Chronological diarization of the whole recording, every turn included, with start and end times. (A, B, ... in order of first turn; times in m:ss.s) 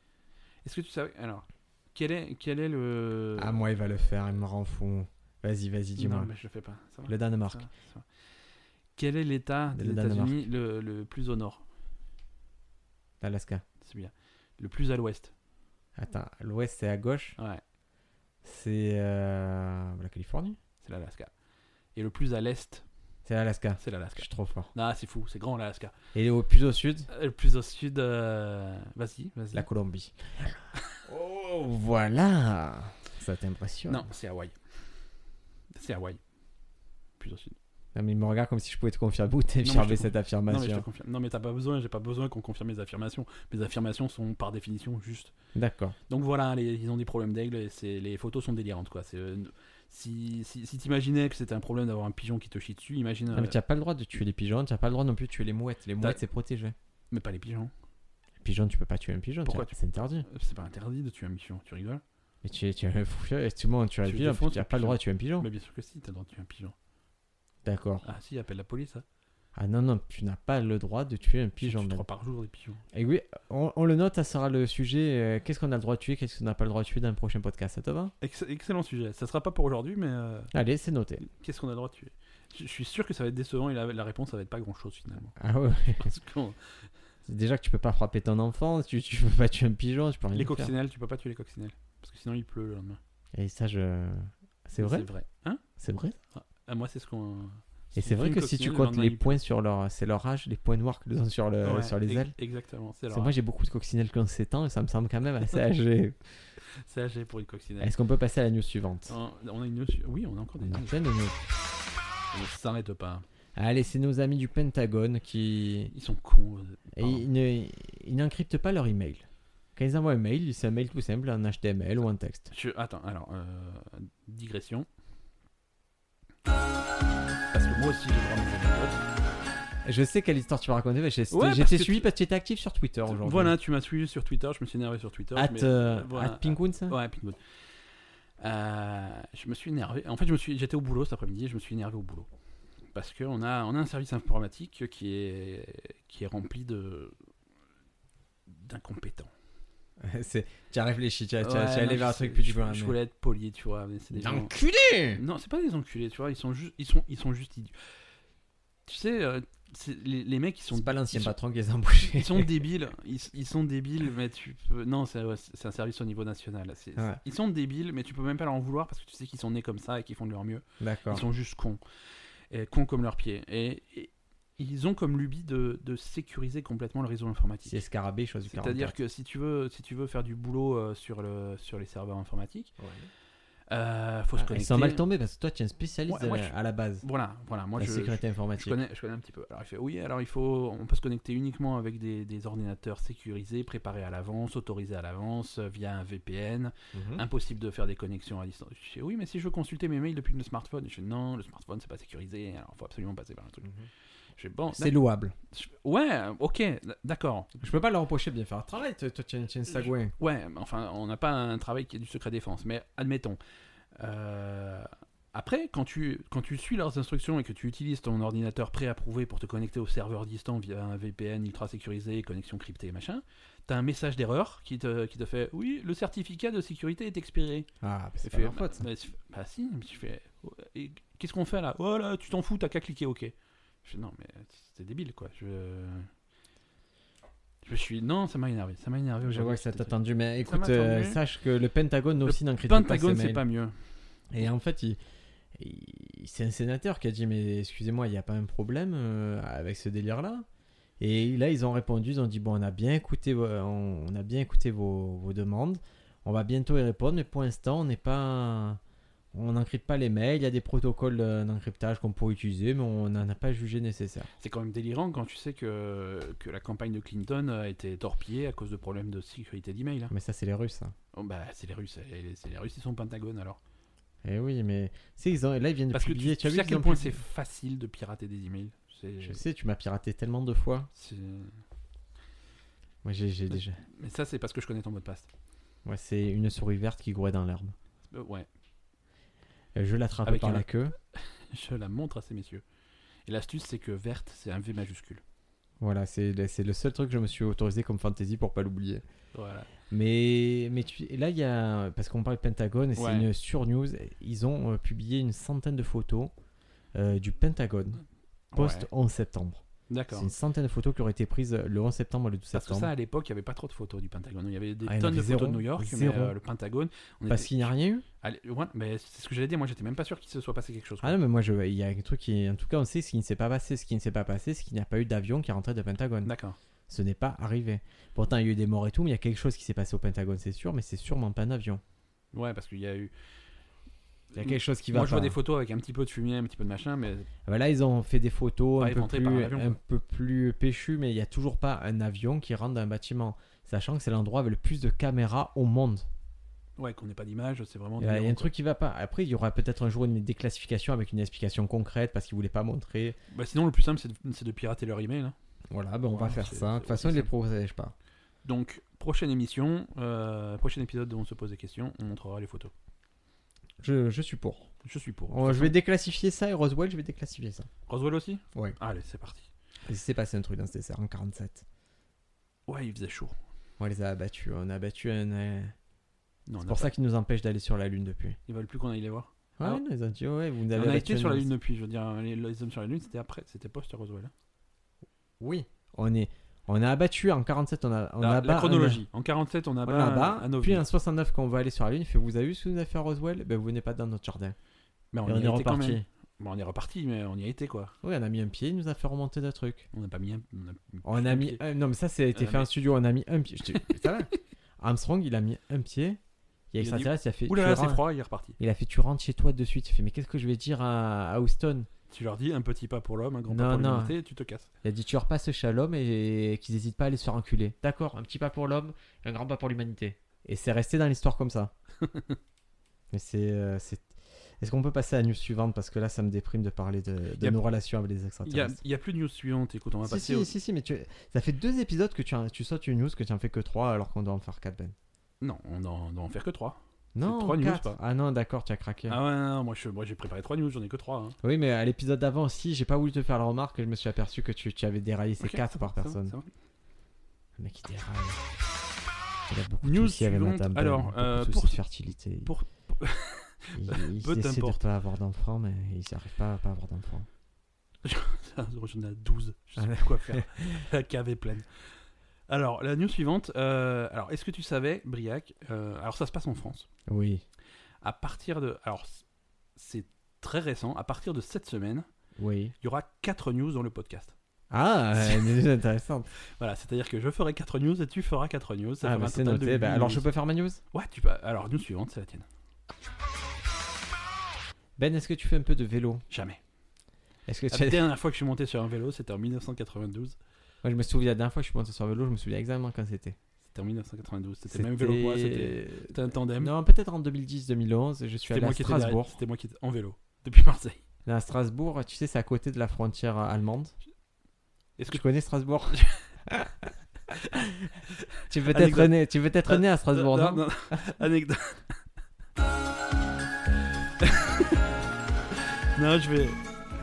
0:00.6-0:03.6 A
0:03.4-0:06.3 B
0:06.0-0:08.0 A
0:07.1-0:07.6 B
0:09.0-0:11.6 A
0:09.7-0:10.4 B
0:13.2-0:13.6 B
0:13.8-0:15.3 A
0:16.0-0:17.4 B
0:17.4-0:17.6 A
0:18.4-0:20.6 B
0:20.8-0:21.3 A
0:21.9-0:22.8 A
0:23.2-0:24.7 B
0:23.8-0:25.9 A
0:26.1-0:27.1 B
0:27.1-0:29.7 A
0:29.5-0:30.6 B
0:31.1-0:34.0 B
0:33.9-0:34.6 A
0:35.7-0:36.2 A
0:37.2-0:37.6 A
0:37.9-0:40.8 B
0:39.6-0:45.3 A
0:45.5-0:46.0 B
0:46.1-0:53.6 A
0:53.3-0:56.7 B
0:57.1-0:57.7 A
0:58.4-1:00.2 B
0:59.4-1:02.0 A
1:02.4-1:05.5 B
1:04.0-1:06.7 A
1:07.6-1:08.0 B
1:08.0-1:09.0 A
1:09.5-1:12.0 B
1:11.6-1:12.8 A
1:12.9-1:18.1 B
1:18.2-1:20.5 A
1:20.5-1:21.2 B
1:21.2-1:25.3 A
1:25.4-1:26.1 B
1:26.0-1:26.8 A
1:27.2-1:30.7 B
1:30.3-1:33.0 A
1:33.3-1:35.1 B
1:34.8-1:35.6 A
1:35.8-1:36.2 B
1:36.3-1:39.4 A
1:37.9-1:42.3 B
1:41.6-1:43.3 A
1:43.1-1:46.2 B
1:46.7-1:47.9 A
1:47.8-1:49.1 B
1:49.1-1:51.0 A
1:50.6-1:51.3 B
1:52.3-1:53.2 A
1:53.6-1:55.9 B
1:55.9-1:57.2 A
1:57.0-2:02.5 B
2:02.5-2:04.9 A
2:07.5-2:09.0 A
2:09.8-2:13.5 B
2:11.3-2:12.1 A
2:13.1-2:17.4 A
2:15.3-2:17.0 B
2:18.4-2:22.3 A
2:22.9-2:27.1 A
2:28.5-2:29.3 A
2:30.0-2:33.0 B
2:31.4-2:34.5 A
2:34.1-2:35.2 B
2:35.1-2:37.7 A
2:38.9-2:41.3 A
2:40.7-2:42.5 B
2:42.2-2:51.8 A
2:50.8-2:51.2 B
2:52.5-2:57.8 A
2:57.7-2:58.9 B
2:58.5-3:02.7 A
3:02.8-3:03.1 B
3:03.7-3:05.0 A
3:04.4-3:07.0 B
3:06.1-3:23.7 A
3:07.8-3:08.8 B
3:16.9-3:17.2 B
3:24.4-3:24.9 A
3:24.7-3:25.3 B
3:25.5-3:27.6 A
3:27.6-3:30.1 B
3:29.7-3:33.4 A
3:34.0-3:47.7 A
3:47.8-3:48.8 B
3:48.2-3:56.1 A
3:57.6-4:01.2 A
3:59.2-4:03.4 B
4:02.2-4:03.7 A
4:04.3-4:05.0 B
4:05.5-4:10.4 B
4:11.0-4:18.8 B
4:19.3-4:24.3 B
4:24.4-4:30.1 A
4:30.1-4:30.9 B
4:31.1-4:33.6 A
4:34.2-4:37.2 B
4:35.9-4:39.4 A
4:39.2-4:40.9 B
4:40.9-4:41.6 A
4:43.0-4:43.8 B
4:43.8-4:45.3 A
4:45.8-4:47.7 B
4:48.1-4:48.5 A
4:49.7-4:50.9 B
4:50.2-4:52.6 A
4:53.2-4:55.2 A
4:55.8-4:59.0 B
4:59.3-4:59.7 A
4:59.9-5:06.3 B
5:03.0-5:03.3 A
5:06.9-5:08.0 B
5:08.5-5:08.9 A
5:08.6-5:12.9 B
5:09.9-5:10.3 A
5:12.5-5:17.7 A
5:14.8-5:16.3 B
5:17.3-5:18.0 B
5:18.2-5:21.2 A
5:21.0-5:26.3 B
5:26.2-5:26.6 A
5:26.9-5:31.8 B
5:32.3-5:33.1 A
5:34.3-5:35.4 B
5:34.3-5:37.3 A
5:37.4-5:46.0 B
5:38.8-5:39.7 A
5:46.8-5:48.5 A
5:48.0-5:53.2 B
5:53.3-5:55.3 A
5:55.7-5:57.9 B
5:56.1-5:57.3 A
5:58.4-6:02.7 A
6:03.8-6:04.7 B
6:04.8-6:05.7 A
6:05.3-6:07.7 B
6:07.9-6:09.5 A
6:09.8-6:11.6 B
6:12.7-6:13.3 A
6:13.8-6:15.7 B
6:16.5-6:16.9 A
6:16.6-6:18.4 B
6:18.5-6:19.8 A
6:19.6-6:21.5 B
6:20.7-6:24.3 A
6:25.4-6:29.0 B
6:28.2-6:30.8 A
6:29.8-6:34.6 B
6:35.1-6:37.9 A
6:35.2-6:36.0 B
6:38.0-6:39.9 B
6:39.9-6:41.6 A
6:41.0-6:46.2 B
6:42.3-6:42.7 A
6:46.7-6:48.0 B
6:46.8-6:48.6 A
6:48.6-6:51.9 B
6:52.1-6:54.7 A
6:53.5-6:54.1 B
6:54.8-7:01.7 B
7:02.0-7:02.4 A
7:03.1-7:08.8 B
7:08.4-7:10.5 A
7:10.0-7:14.9 B
7:15.4-7:18.0 A
7:17.1-7:19.2 B
7:19.1-7:21.4 A
7:21.4-7:26.3 B
7:25.4-7:26.5 A
7:27.6-7:28.4 B
7:29.5-7:32.5 B
7:29.8-7:31.8 A
7:32.4-7:34.8 A
7:33.8-7:37.3 B
7:38.0-7:41.8 A
7:39.8-7:40.8 B
7:42.5-7:46.9 A
7:47.1-7:47.4 B
7:48.0-7:49.2 A
7:49.8-7:52.0 A
7:52.4-7:52.7 B
7:52.8-7:54.3 A
7:54.7-7:56.3 B
7:55.2-7:55.6 A
7:56.5-8:00.2 A
7:59.0-8:00.8 B
8:00.9-8:02.4 A
8:05.0-8:06.2 B
8:06.3-8:06.6 A
8:07.5-8:08.0 B
8:07.7-8:10.4 A
8:10.8-8:13.4 B
8:13.7-8:16.7 A
8:14.7-8:19.4 B
8:18.5-8:21.0 A
8:21.2-8:24.0 B
8:25.0-8:25.2 A
8:25.1-8:26.9 B
8:25.9-8:26.2 A
8:28.1-8:32.0 A
8:28.5-8:31.2 B
8:34.2-8:34.7 A
8:35.9-8:36.6 A